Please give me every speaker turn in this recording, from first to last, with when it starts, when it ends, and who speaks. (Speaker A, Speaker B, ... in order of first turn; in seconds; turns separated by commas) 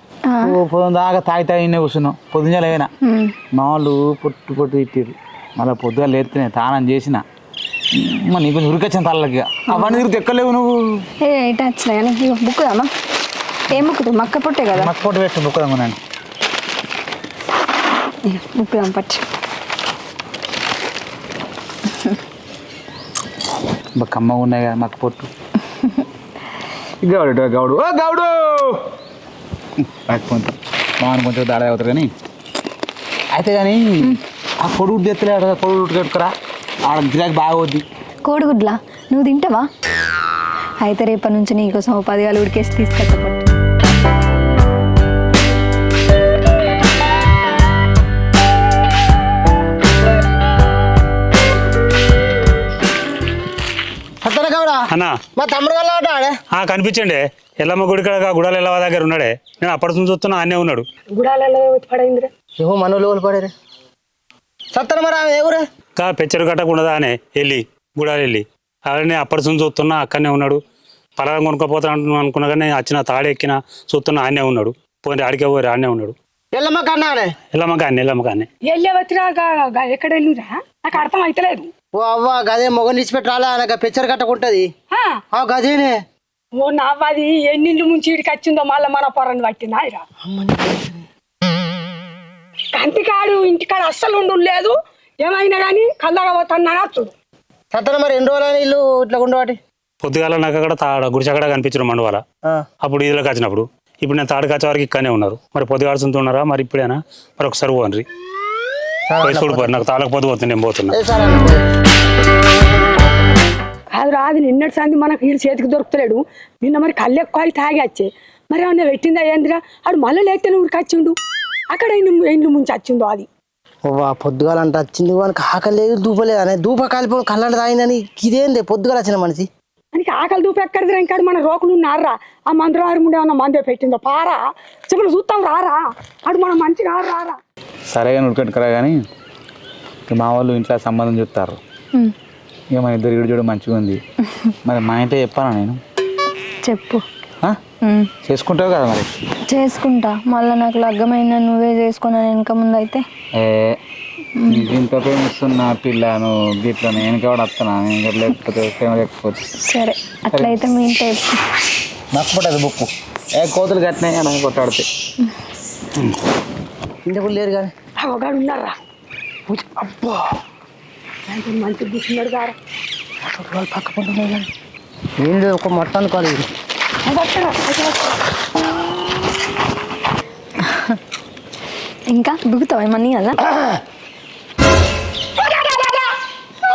Speaker A: 0.3-0.5, Speaker B: 0.4-2.9, Speaker A: 3.0-3.3, Speaker B: 3.5-7.2, Speaker B: 7.9-11.0, Speaker A: 9.7-10.0, Speaker A: 11.2-12.9, Speaker A: 13.7-14.9, Speaker B: 14.7-16.0, Speaker A: 18.2-19.2, Speaker B: 24.0-25.3, Speaker B: 27.0-28.9, Speaker B: 29.8-32.1, Speaker B: 33.3-36.3, Speaker B: 36.9-37.8, Speaker A: 38.2-39.7, Speaker A: 40.8-43.5, Speaker C: 54.2-54.8, Speaker D: 54.9-55.1, Speaker C: 55.4-56.3, Speaker D: 56.5-60.8, Speaker E: 61.1-62.3, Speaker C: 62.6-63.5, Speaker C: 64.7-65.6, Speaker D: 66.0-70.6, Speaker D: 71.2-76.1, Speaker C: 76.5-77.3, Speaker D: 77.5-78.5, Speaker E: 78.6-81.7, Speaker C: 81.9-84.7, Speaker E: 84.9-85.2, Speaker C: 85.3-86.0, Speaker E: 86.6-90.0, Speaker C: 90.2-91.0, Speaker E: 92.7-97.1, Speaker C: 97.7-99.6, Speaker D: 100.0-102.2, Speaker D: 102.8-108.0, Speaker C: 109.1-109.8, Speaker D: 109.2-111.0, Speaker C: 110.9-111.6, Speaker E: 113.9-121.2, Speaker E: 121.7-123.3, Speaker C: 123.9-129.5, Speaker E: 129.9-137.4, Speaker B: 137.9-139.0, Speaker B: 140.1-141.6, Speaker B: 142.7-144.0, Speaker B: 144.6-145.8, Speaker A: 146.6-147.0, Speaker A: 147.8-148.1, Speaker B: 148.2-149.1, Speaker A: 149.5-153.0, Speaker B: 153.3-153.8, Speaker A: 154.4-154.7, Speaker B: 154.5-159.4, Speaker A: 159.7-161.4, Speaker B: 160.3-160.6, Speaker B: 162.1-164.9, Speaker C: 167.1-167.7, Speaker E: 168.0-168.8, Speaker E: 169.6-169.9, Speaker C: 169.8-170.2, Speaker E: 171.3-172.6, Speaker C: 173.2-174.4, Speaker C: 175.2-176.5, Speaker E: 177.1-178.2, Speaker A: 182.1-183.4, Speaker B: 185.5-185.9